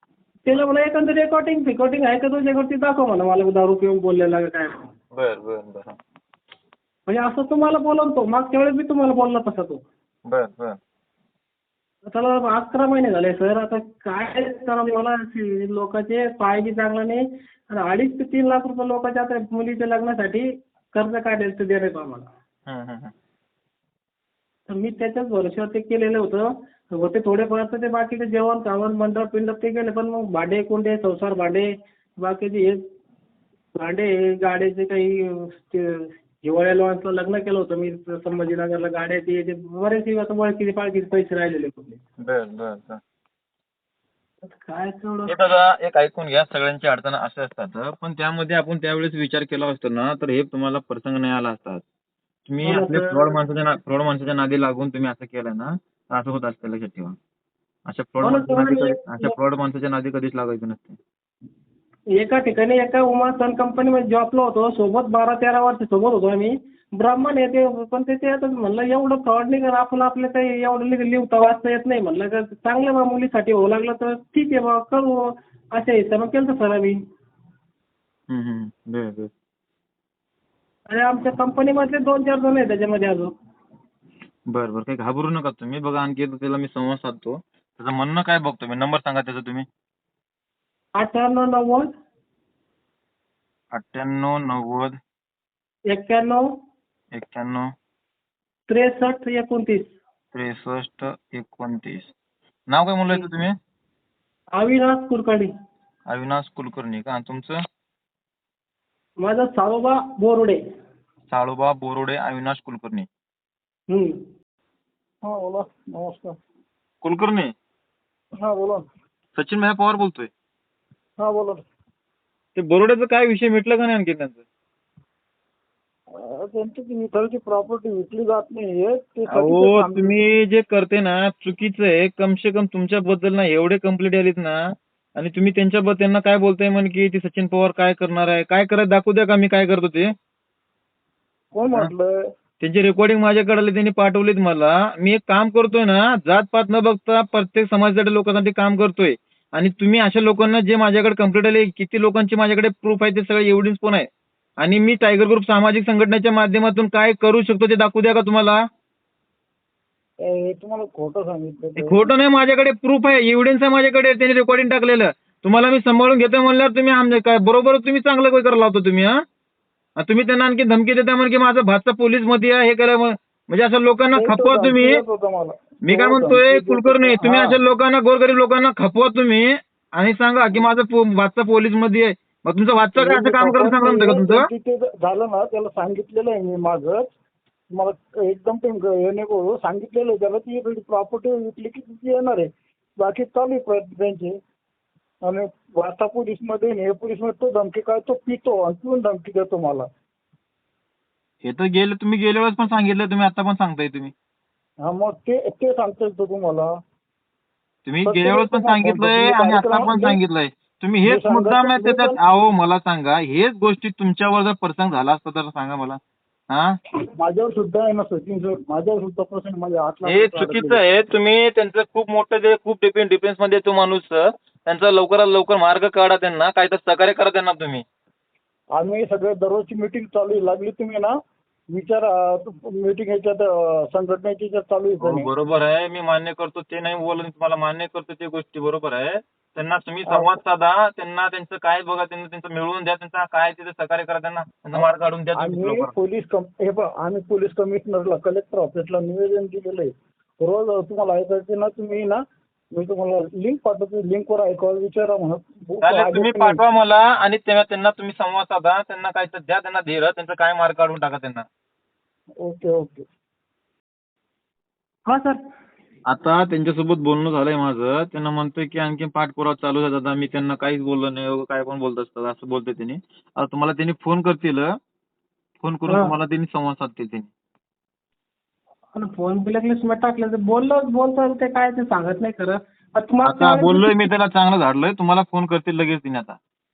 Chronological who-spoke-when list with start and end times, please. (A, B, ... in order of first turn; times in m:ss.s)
0:00.5-0:04.9 A
0:05.1-0:06.0 B
0:07.1-0:09.8 A
0:10.3-0:10.8 B
0:12.1-0:22.3 A
0:22.7-0:23.1 B
0:24.7-0:32.8 A
0:33.8-0:42.0 A
0:42.2-0:43.0 B
0:44.4-0:45.4 A
0:45.3-0:51.8 B
0:52.5-0:57.2 B
0:52.6-0:53.4 A
0:57.9-1:01.0 B
0:58.2-0:59.4 A
1:02.2-1:17.0 A
1:18.3-1:19.3 B
1:20.9-1:23.3 A
1:24.5-1:29.7 B
1:31.0-1:31.9 A
1:33.7-1:35.0 B
1:35.9-1:36.4 A
1:37.1-1:37.7 B
1:38.7-1:40.0 A
1:40.3-1:42.1 B
1:42.7-1:43.6 B
1:44.6-1:45.5 A
1:46.1-1:47.6 B
1:49.2-1:50.6 A
1:51.3-1:53.1 B
1:53.9-1:54.2 A
1:55.2-1:56.4 C
1:57.0-1:57.5 B
1:58.4-1:58.9 C
1:59.4-2:00.3 B
2:01.2-2:01.6 C
2:02.6-2:04.4 B
2:06.1-2:10.2 C
2:09.3-2:14.6 B
2:15.2-2:20.1 B
2:21.5-2:22.3 C
2:22.6-2:34.1 B
2:34.6-2:38.6 B
2:40.2-2:42.0 C
2:41.8-2:49.1 B
2:50.0-2:55.0 B
2:54.2-2:57.6 C
2:55.8-3:04.5 B
3:03.0-3:07.1 C
3:07.7-3:14.4 C
3:15.2-3:19.9 C
3:21.4-3:24.1 B
3:24.8-3:26.8 C
3:27.8-3:36.0 B
3:28.0-3:30.2 C
3:31.0-3:32.2 C
3:37.2-3:40.8 C
3:40.1-3:47.8 B
3:48.7-3:51.2 C
3:51.7-3:55.3 C
3:55.0-4:05.9 B
4:00.1-4:00.4 C
4:04.7-4:16.6 C
4:15.8-4:21.4 B
4:22.4-4:23.0 C
4:25.1-4:25.4 A
4:26.1-4:34.7 B
4:35.6-4:37.3 B
4:39.0-4:44.1 A
4:43.2-4:46.4 B